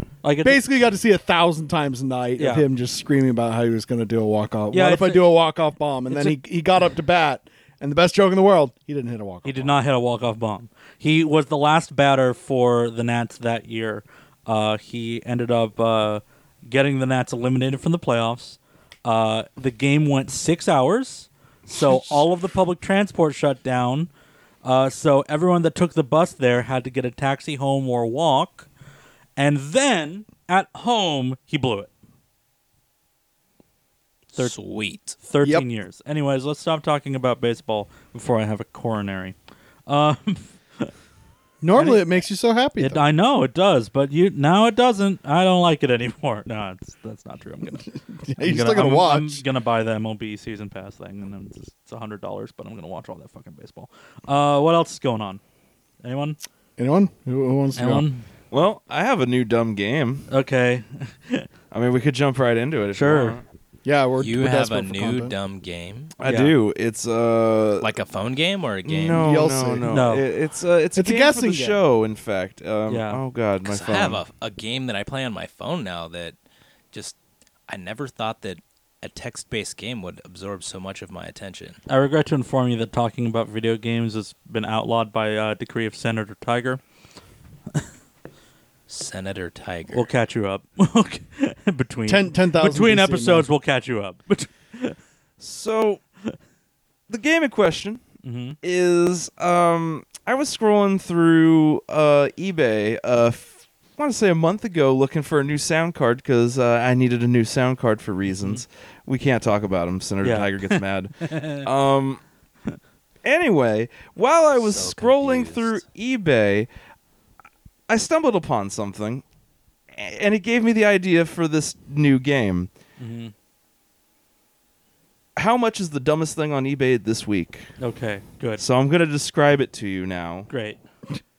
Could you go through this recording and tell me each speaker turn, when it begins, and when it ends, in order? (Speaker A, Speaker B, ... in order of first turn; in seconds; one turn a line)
Speaker A: 0.2-0.6
Speaker B: 0.4-9.7
Speaker A: 2.4-2.6
Speaker A: 4.7-5.3
Speaker A: 6.1-6.3
Speaker A: 9.4-24.1
Speaker A: 24.6-28.7
Speaker A: 29.4-31.9
Speaker C: 34.3-35.1
Speaker A: 35.2-39.4
Speaker A: 39.9-40.9
Speaker B: 41.6-43.0
Speaker A: 41.7-42.1
Speaker A: 42.8-47.9
Speaker B: 48.1-49.4
Speaker A: 48.4-55.4
Speaker A: 56.0-56.4
Speaker B: 56.8-58.0
Speaker A: 57.8-58.2
Speaker D: 58.5-60.3
Speaker A: 60.3-61.5
Speaker D: 61.7-63.4
Speaker A: 62.9-63.4
Speaker B: 63.8-65.3
Speaker C: 64.2-66.1
Speaker D: 66.2-67.9
Speaker A: 66.2-66.5
Speaker C: 67.8-69.2
Speaker D: 68.8-74.2
Speaker B: 69.1-69.9
Speaker A: 69.9-70.2
Speaker B: 70.9-71.8
Speaker A: 72.9-73.2
Speaker C: 73.6-76.3
Speaker C: 77.7-81.8
Speaker A: 81.9-86.8
Speaker C: 88.9-90.0
Speaker A: 89.9-95.0
Speaker B: 92.1-93.5
Speaker D: 95.4-96.0
Speaker D: 97.1-98.0
Speaker A: 98.2-98.6
Speaker D: 98.6-112.2
Speaker A: 108.3-108.6
Speaker A: 110.2-111.7
Speaker D: 113.2-116.7
Speaker C: 114.5-115.8
Speaker D: 117.9-119.2
Speaker D: 119.9-122.7
Speaker A: 123.0-123.3
Speaker D: 125.3-127.7
Speaker A: 127.8-128.6
Speaker D: 128.6-130.5
Speaker A: 130.5-130.8